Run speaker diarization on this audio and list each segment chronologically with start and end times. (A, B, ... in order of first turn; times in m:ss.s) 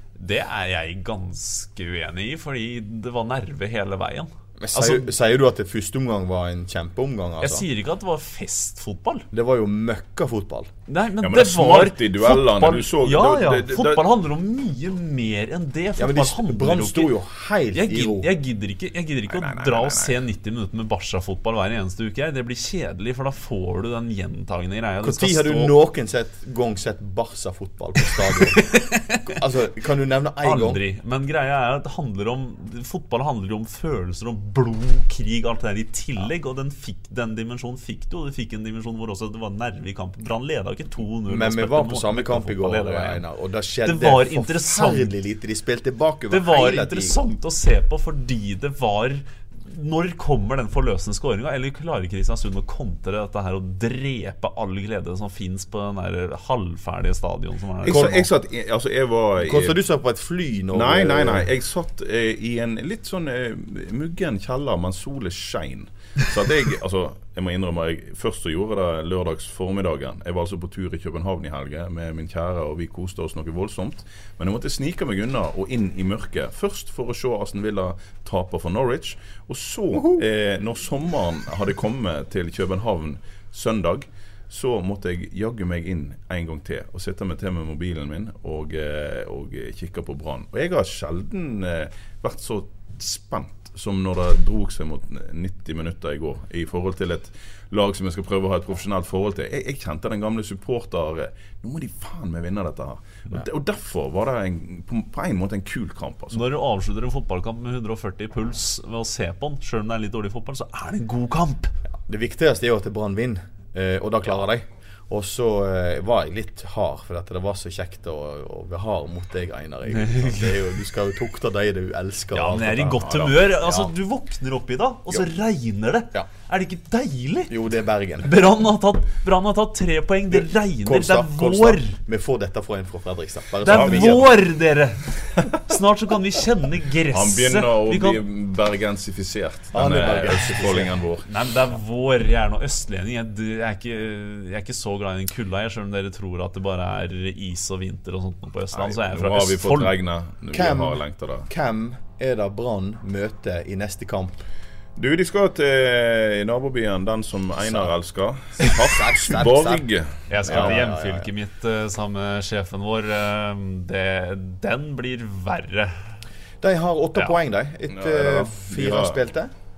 0:00.2-0:05.1 A
0:04.6-0:07.7 B
0:07.4-0:09.3 A
0:09.3-0:10.7 B
0:10.9-0:17.1 A
0:11.2-0:14.1 C
0:16.0-0:18.3 B
0:17.7-0:25.7 A
0:19.3-0:20.2 C
0:25.0-0:28.6 B
0:28.6-0:29.4 A
0:29.3-0:30.8 B
0:30.4-0:43.2 A
0:41.3-0:47.2 B
0:43.8-0:45.2 A
0:46.3-0:58.3 A
0:57.8-0:59.8 C
0:57.9-0:58.2 B
0:59.4-1:01.5 B
1:00.7-1:46.4 C
1:46.3-1:51.7 A
1:51.9-2:03.9 B
1:59.9-2:00.6 A
2:02.3-2:07.6 A
2:03.1-2:03.4 C
2:07.5-2:08.3 B
2:08.2-2:12.0 A
2:10.8-2:14.3 B
2:13.6-2:18.2 A
2:13.7-2:14.3 C
2:17.1-2:21.3 C
2:19.7-2:21.0 B
2:21.3-2:29.9 A
2:28.7-2:31.5 C
2:30.5-2:34.5 B
2:35.0-2:40.8 C
2:37.6-2:37.9 B
2:38.6-2:39.9 B
2:40.3-2:46.1 A
2:40.4-2:41.3 B
2:46.6-2:49.5 B
2:47.9-2:49.2 C